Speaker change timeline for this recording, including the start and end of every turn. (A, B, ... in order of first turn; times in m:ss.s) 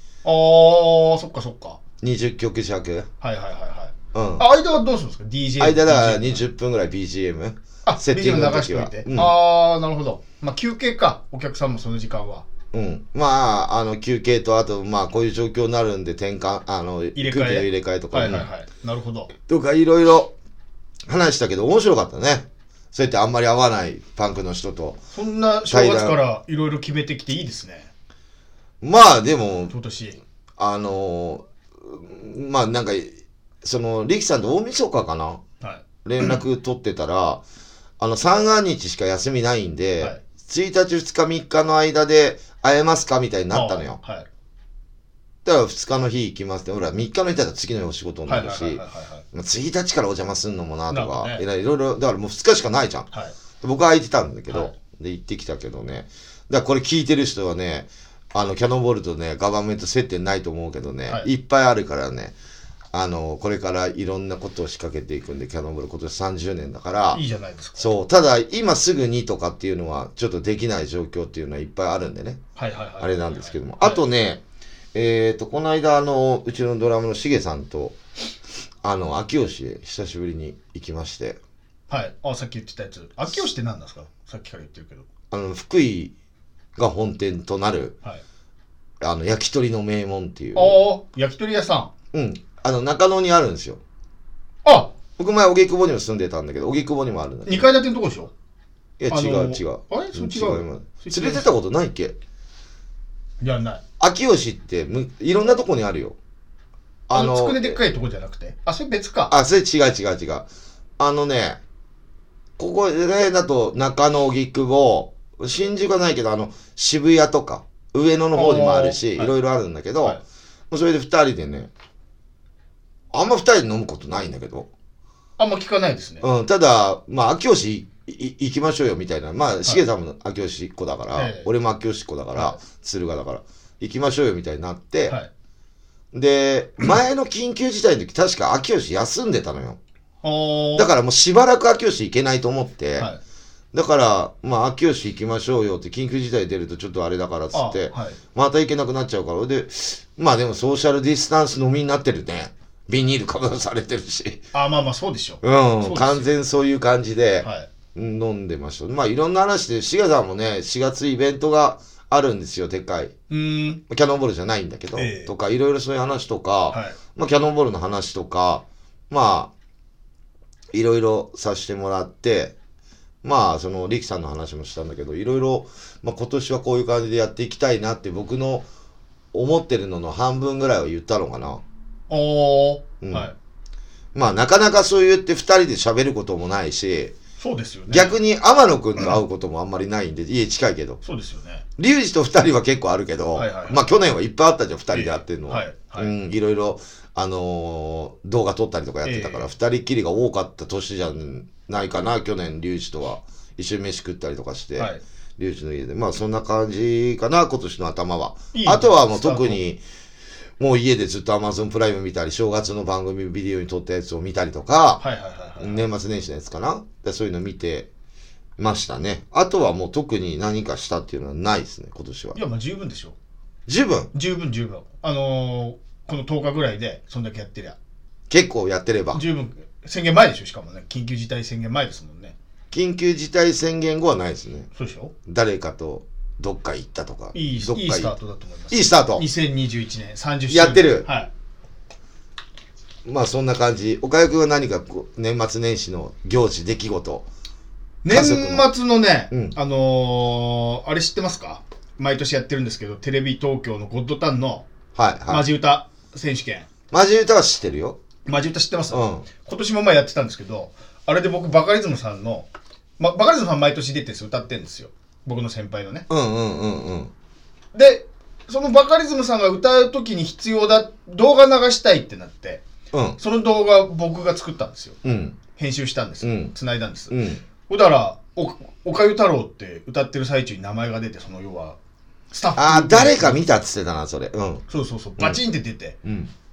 0:00.2-0:01.8 A
0:02.0-0:03.1 B
0:03.2-0:06.4 A
0:04.1-0:04.4 B
0:05.6-0:09.3 B
0:07.8-0:12.4 A
0:12.7-0:18.5 B
0:17.1-0:19.3 A
0:19.4-0:20.3 B
0:21.1-0:25.0 B
0:25.1-0:27.9 A
0:25.7-0:26.2 B
0:28.8-0:29.7 B
0:29.7-0:30.2 A
0:30.6-0:35.4 B
0:36.0-0:37.4 B
0:38.0-0:44.0 B
0:43.5-0:44.3 A
0:45.4-0:53.1 B
0:48.3-0:49.2 A
0:50.9-0:51.4 A
0:53.6-1:02.3 B
0:54.5-0:54.7 A
1:02.9-1:07.2 B
1:07.1-1:07.9 A
1:07.8-1:12.4 B
1:12.6-1:14.0 A
1:13.0-1:14.4 B
1:14.9-1:18.0 B
1:18.8-1:21.4 B
1:21.9-1:25.0 A
1:25.3-1:26.1 B
1:26.8-1:28.0 B
1:29.0-1:30.8 B
1:30.5-1:31.9 A
1:32.1-1:33.8 B
1:34.6-1:34.9 A
1:35.2-1:37.7 B
1:37.4-1:38.3 A
1:39.0-1:42.1 B
1:39.1-1:41.5 A
1:43.4-1:43.8 A
1:44.0-1:46.2 B
1:47.1-1:47.8 B
1:47.1-1:49.3 A
1:49.3-1:50.5 B
1:51.0-1:51.6 B
1:52.6-2:00.2 B
1:58.3-1:59.3 A
2:00.7-2:01.7 B
2:03.1-2:04.7 B
2:05.4-2:06.2 A
2:06.2-2:15.2 B
2:11.1-2:11.5 A
2:16.1-2:19.8 B
2:20.2-2:20.9 A
2:20.8-2:23.1 B
2:23.7-2:34.4 B
2:27.5-2:28.2 A
2:34.5-2:36.3 A
2:35.4-2:43.1 B
2:37.4-2:37.7 A
2:43.3-2:43.8 A
2:43.9-2:49.5 B
2:44.9-2:45.3 A
2:46.7-2:47.0 A
2:50.7-2:52.5 B
2:53.2-2:58.6 B
2:59.3-3:01.6 B
3:02.1-3:03.3 A
3:03.0-3:03.3 B
3:04.1-3:07.1 B
3:07.4-3:08.2 A
3:07.9-3:11.0 B
3:11.0-3:11.6 A
3:11.8-3:29.8 B
3:13.3-3:14.0 A
3:14.9-3:16.1 A
3:19.0-3:19.5 A
3:24.8-3:25.0 A
3:28.5-3:29.6 A
3:30.6-3:35.0 B
3:35.0-3:35.8 A
3:35.6-3:37.9 B
3:38.6-3:42.4 B
3:42.3-3:43.2 A
3:43.7-3:44.1 B
3:44.1-3:47.8 A
3:48.3-3:49.2 B
3:49.1-3:52.3 A
3:52.7-3:54.7 B
3:54.7-3:55.1 A
3:55.2-3:58.1 B
3:57.3-4:01.3 A
3:58.7-3:59.2 B
4:00.5-4:01.1 B
4:03.0-4:07.3 B
4:08.0-4:14.6 A
4:08.1-4:08.7 B
4:14.9-4:15.5 B
4:15.3-4:16.7 A
4:16.9-4:18.0 B
4:18.2-4:26.1 A
4:18.9-4:19.2 B
4:26.1-4:27.1 B
4:27.7-4:32.6 A
4:32.9-4:33.2 B
4:33.2-4:35.0 A
4:35.0-4:35.4 B
4:35.5-4:37.2 A
4:36.2-4:36.5 B
4:37.1-4:37.4 B
4:37.7-4:41.8 A
4:42.3-4:43.4 A
4:42.6-4:44.6 B
4:44.7-4:46.0 A
4:46.0-4:46.3 B